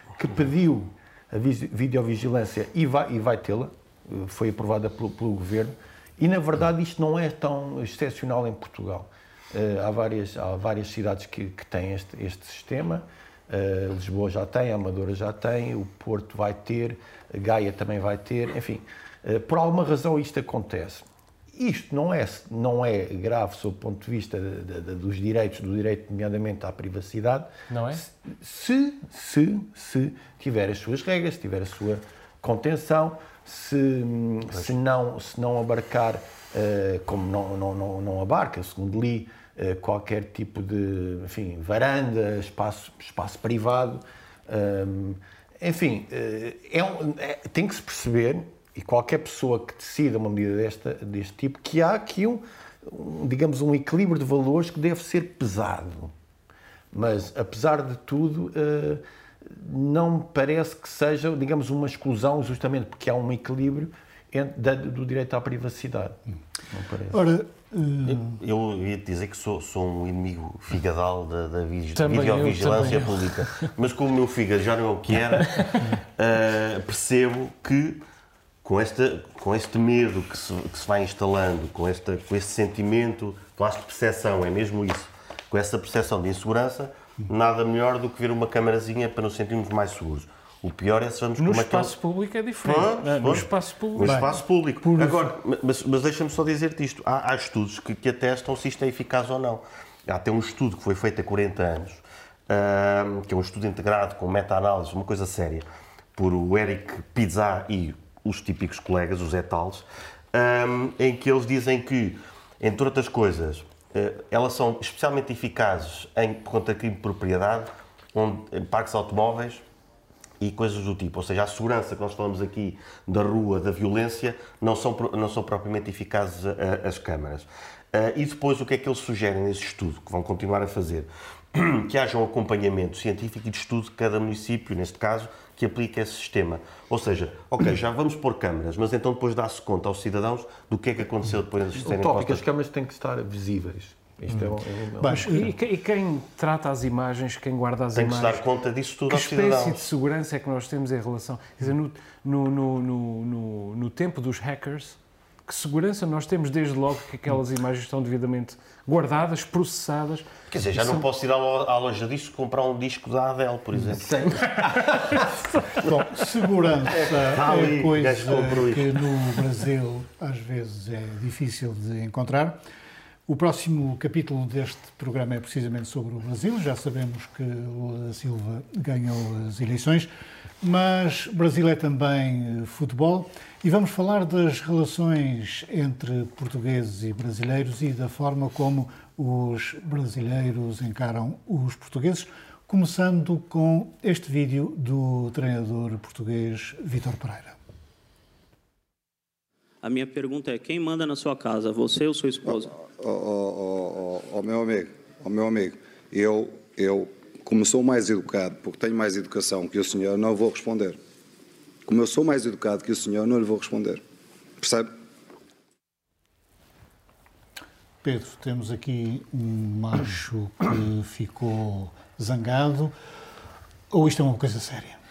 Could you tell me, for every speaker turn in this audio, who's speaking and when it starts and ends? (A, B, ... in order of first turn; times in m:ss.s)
0:00.2-0:56.1 A
0:27.7-0:28.0 B
0:56.9-1:06.2 A
1:06.7-1:07.2 A
1:07.1-1:08.4 C
1:08.0-1:18.0 D
1:12.0-1:13.7 B
1:15.4-1:15.9 B
1:18.6-1:31.9 D
1:31.4-1:34.3 B
1:32.6-1:59.6 D
1:34.0-1:35.2 C
2:00.4-2:22.4 D
2:21.8-2:25.5 A
2:25.0-2:25.4 C
2:25.1-2:28.4 B
2:27.9-2:29.9 D
2:29.1-2:41.0 B
2:40.5-2:44.5 D
2:43.7-2:45.4 A
2:45.8-2:52.6 C
2:47.2-2:49.2 D
2:53.3-3:00.1 C
3:00.6-3:17.6 C
3:19.8-3:22.7 E
3:22.5-3:31.0 F
3:31.9-3:34.0 F
3:34.6-3:34.9 F
3:38.0-3:42.9 C
3:43.9-3:45.0 C